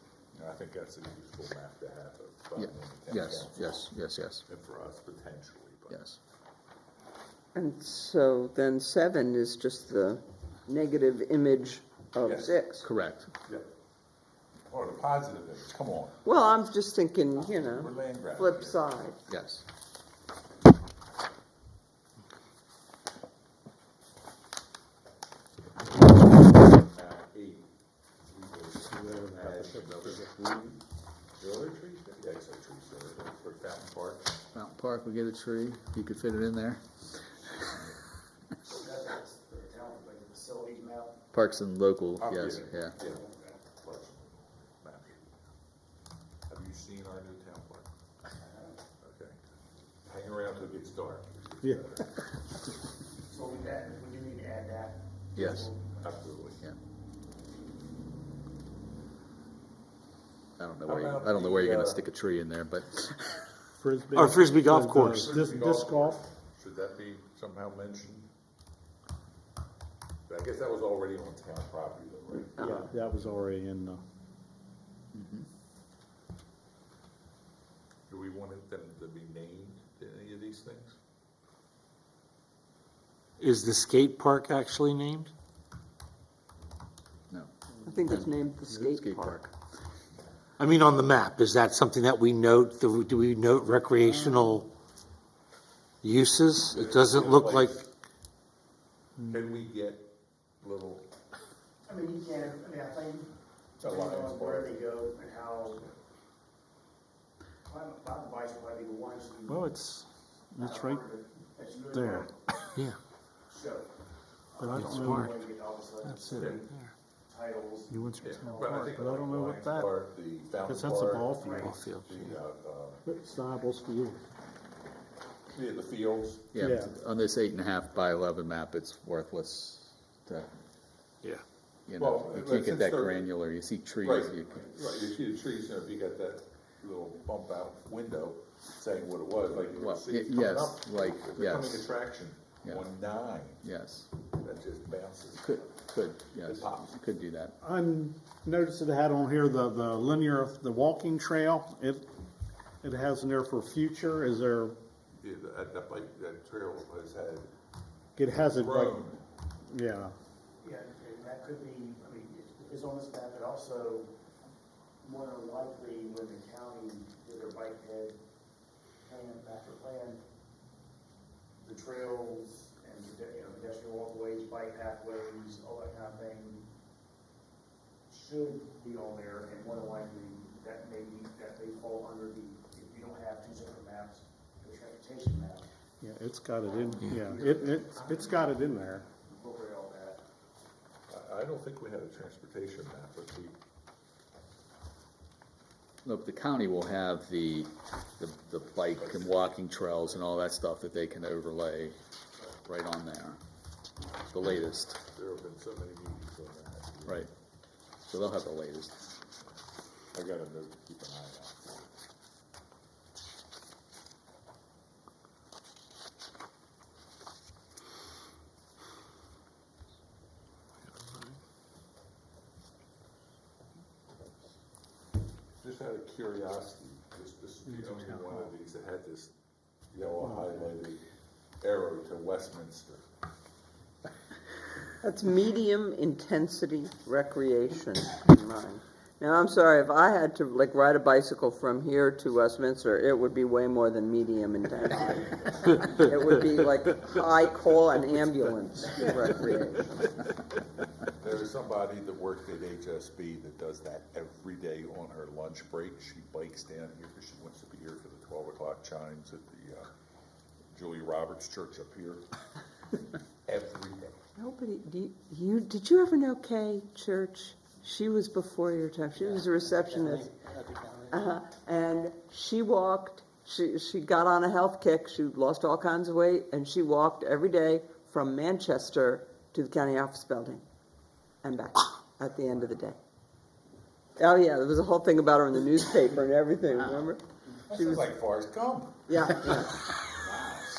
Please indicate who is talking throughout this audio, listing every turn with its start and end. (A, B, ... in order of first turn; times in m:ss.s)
0:00.3-0:03.8 A
0:02.6-0:04.4 B
0:04.5-0:06.0 A
0:05.9-0:06.2 B
0:07.5-0:12.8 C
0:12.2-0:12.6 A
0:12.8-0:13.3 B
0:14.7-0:16.2 A
0:16.2-0:19.2 C
0:17.5-0:18.8 A
0:19.3-0:19.6 B
0:26.1-0:27.7 A
0:28.2-0:30.8 A
0:28.9-0:30.5 D
0:31.4-0:34.3 A
0:34.5-0:37.0 B
0:38.7-0:41.2 E
0:41.3-0:43.0 B
0:42.2-0:45.4 A
0:42.9-0:43.6 E
0:46.5-0:47.9 A
0:48.4-0:48.8 E
0:49.0-0:49.4 A
0:50.0-0:52.1 A
0:53.3-0:55.9 E
0:55.3-0:55.7 B
0:56.0-0:56.6 A
1:00.6-1:03.5 B
1:00.8-1:02.0 A
1:03.8-1:06.2 D
1:04.1-1:05.2 F
1:05.1-1:08.3 A
1:10.3-1:12.8 A
1:12.6-1:14.0 D
1:12.6-1:12.9 C
1:15.1-1:15.5 B
1:18.1-1:21.0 A
1:23.4-1:25.3 F
1:27.8-1:29.5 C
1:28.0-1:29.4 B
1:30.6-1:34.7 F
1:36.0-1:37.8 F
1:36.7-1:37.8 A
1:39.3-1:40.1 A
1:40.6-1:41.0 A
1:41.9-1:45.8 E
1:43.8-1:44.7 A
1:47.7-1:49.7 E
1:49.5-1:51.0 D
1:50.6-1:52.3 E
1:51.9-1:52.3 D
1:53.5-1:53.9 E
1:54.6-1:56.7 E
1:54.6-1:55.3 D
1:54.7-1:55.3 F
1:56.1-1:56.8 F
1:56.3-1:56.6 A
1:57.3-1:58.9 E
1:57.9-2:00.0 D
1:58.2-2:03.0 A
2:00.6-2:01.9 D
2:01.4-2:01.7 E
2:01.6-2:02.2 F
2:03.0-2:04.2 D
2:05.5-2:06.5 A
2:06.5-2:10.5 B
2:06.6-2:06.9 D
2:11.9-2:14.7 B
2:12.0-2:13.3 A
2:14.0-2:23.6 A
2:19.7-2:21.9 B
2:23.6-2:24.1 B
2:24.3-2:25.7 A
2:25.4-2:27.6 B
2:26.4-2:27.0 A
2:27.6-2:32.1 D
2:32.8-2:34.8 D
2:35.2-2:37.5 A
2:38.2-2:39.0 D
2:38.4-2:39.2 A
2:39.6-2:40.1 D
2:40.6-2:44.1 E
2:45.0-2:48.2 E
2:49.0-2:50.2 E
2:51.6-2:56.6 E
2:58.1-3:05.6 E
3:06.0-3:09.0 D
3:06.6-3:08.6 E
3:09.2-3:10.2 E
3:11.1-3:13.6 A
3:16.0-3:22.0 B
3:19.0-3:19.6 A
3:22.5-3:23.4 B
3:24.3-3:25.0 B
3:25.1-3:27.3 A
3:27.0-3:27.3 B
3:28.1-3:29.0 B
3:30.1-3:31.9 A
3:45.6-3:49.3 A
3:49.9-3:51.0 A
3:50.3-3:50.6 D
3:51.6-3:53.0 A
3:55.0-4:09.9 C
4:11.2-4:19.9 A
4:20.7-4:22.2 A
4:23.4-4:24.2 A
4:24.4-4:30.3 C
4:31.1-4:40.6 C
4:41.4-4:43.0 C
4:44.2-4:48.1 C
4:47.7-4:49.0 A
4:49.1-4:49.8 C
4:50.2-4:50.6 A